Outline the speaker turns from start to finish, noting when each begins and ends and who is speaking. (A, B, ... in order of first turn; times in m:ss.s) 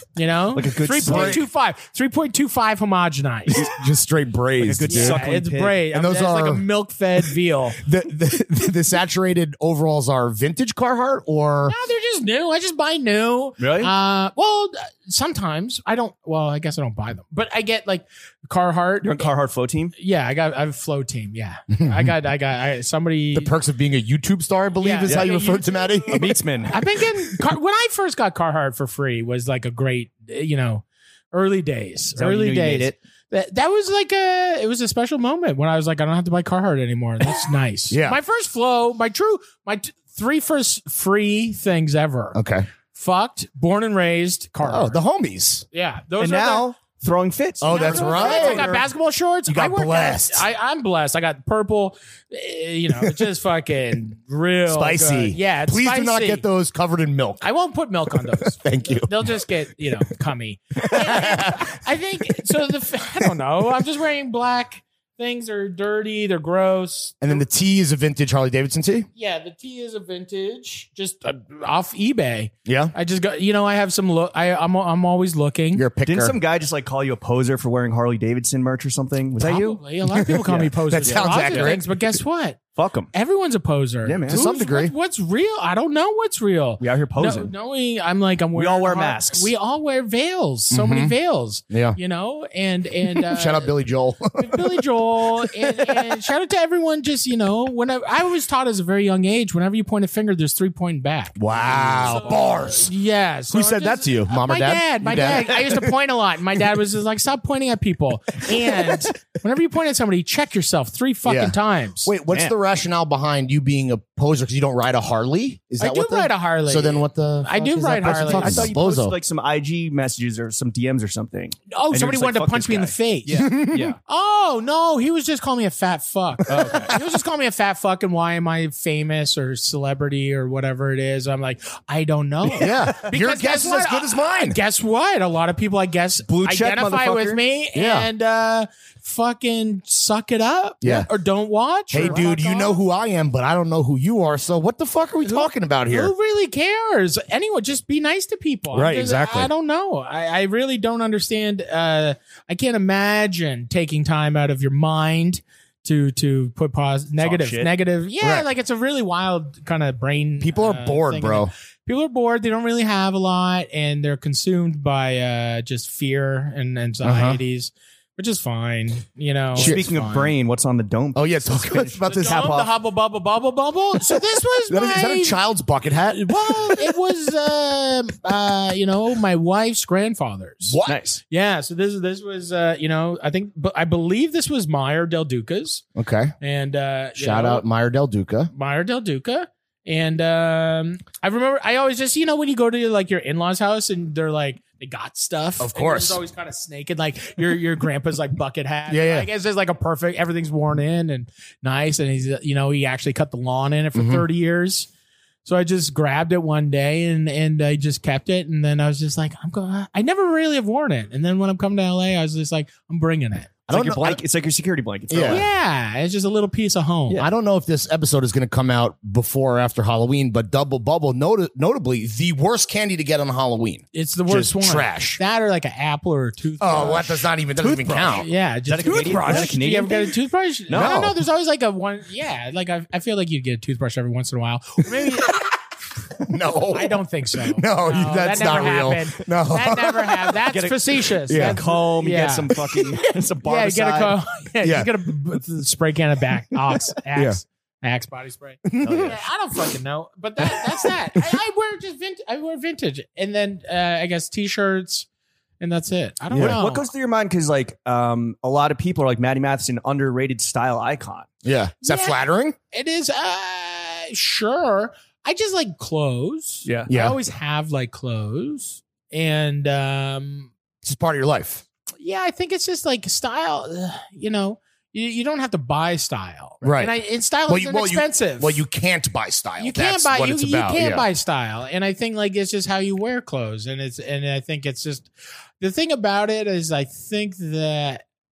0:00.2-0:03.7 A
0:00.6-0:01.4 B
0:01.0-0:01.4 C
0:03.5-0:05.2 C
0:04.6-0:05.8 B
0:04.9-0:07.8 A
0:05.9-0:06.6 C
0:07.8-0:11.8 C
0:11.7-0:19.3 A
0:13.6-0:13.9 B
0:19.0-0:19.9 B
0:20.0-0:23.5 A
0:21.8-0:22.1 C
0:23.3-0:26.4 C
0:24.8-0:42.4 A
0:25.1-0:25.3 B
0:26.1-0:26.8 B
0:32.2-0:33.0 B
0:37.9-0:38.2 C
0:42.3-0:42.7 C
0:42.9-0:45.0 A
0:44.6-0:45.6 C
0:45.7-0:46.7 A
0:46.2-0:48.9 B
0:47.6-0:48.7 C
0:47.7-0:56.4 A
0:49.5-0:50.5 C
0:54.7-0:57.5 C
0:57.4-1:07.4 A
0:58.1-0:59.3 C
1:00.8-1:01.8 C
1:07.2-1:09.1 C
1:09.2-1:15.9 A
1:12.7-1:12.9 C
1:15.7-1:16.4 C
1:16.0-1:19.8 B
1:19.4-1:22.6 A
1:20.1-1:21.8 C
1:20.5-1:21.8 B
1:22.8-1:23.1 B
1:23.1-1:33.8 A
1:24.0-1:24.5 B
1:24.3-1:24.9 C
1:26.8-1:27.5 B
1:28.6-1:29.5 B
1:30.7-1:31.1 C
1:31.7-1:32.0 C
1:33.2-1:34.8 C
1:34.3-1:52.1 A
1:35.4-1:36.1 C
1:41.4-1:42.9 C
1:41.8-1:42.2 B
1:43.5-1:45.9 C
1:51.3-1:59.2 C
1:55.8-1:58.7 A
1:58.1-2:04.0 B
2:01.7-2:22.8 A
2:03.4-2:03.9 C
2:06.5-2:06.9 B
2:06.6-2:07.0 C
2:12.6-2:14.6 C
2:12.6-2:12.9 B
2:16.3-2:17.4 B
2:17.8-2:18.1 C
2:20.8-2:21.1 C
2:21.9-2:26.1 C
2:21.9-2:22.2 B
2:25.2-2:50.3 A
2:28.7-2:29.5 C
2:37.2-2:37.7 B
2:38.2-2:38.5 C
2:40.4-2:41.5 C
2:47.0-2:47.4 C
2:49.6-2:49.8 C
2:49.6-2:52.7 B
2:51.2-2:52.6 C
2:52.1-2:55.4 A
2:54.7-2:56.9 C
2:56.1-3:05.8 A
3:00.7-3:01.1 C
3:00.8-3:01.2 B
3:06.0-3:06.3 C
3:06.4-3:07.6 A
3:07.2-3:08.5 C
3:08.5-3:24.9 A
3:15.6-3:16.2 C
3:18.9-3:19.3 C
3:24.0-3:24.2 C
3:25.4-3:33.6 A
3:33.7-3:34.2 C
3:33.7-3:35.5 B
3:35.1-3:35.4 C
3:35.3-3:37.2 A
3:37.2-3:45.2 C
3:43.9-3:47.2 A
3:46.6-3:48.3 C
3:47.6-3:50.1 B
3:48.1-3:55.4 A
3:49.0-3:49.4 C
3:50.7-3:51.1 B
3:50.7-3:51.1 C
3:56.2-4:00.4 C
3:56.7-4:02.8 A
4:00.5-4:04.2 B
4:01.3-4:01.6 C
4:03.4-4:15.1 A
4:04.6-4:04.9 C
4:08.6-4:09.2 C
4:08.8-4:09.2 B
4:15.6-4:16.9 A
4:16.3-4:16.6 C
4:16.3-4:21.3 B
4:21.4-4:22.6 C
4:21.8-4:22.2 A
4:22.7-4:30.5 A
4:26.6-4:26.9 B
4:26.9-4:27.2 C
4:30.8-4:31.6 C
4:32.0-4:38.6 A
4:36.6-4:37.0 C
4:37.5-4:41.1 C
4:39.6-4:48.0 A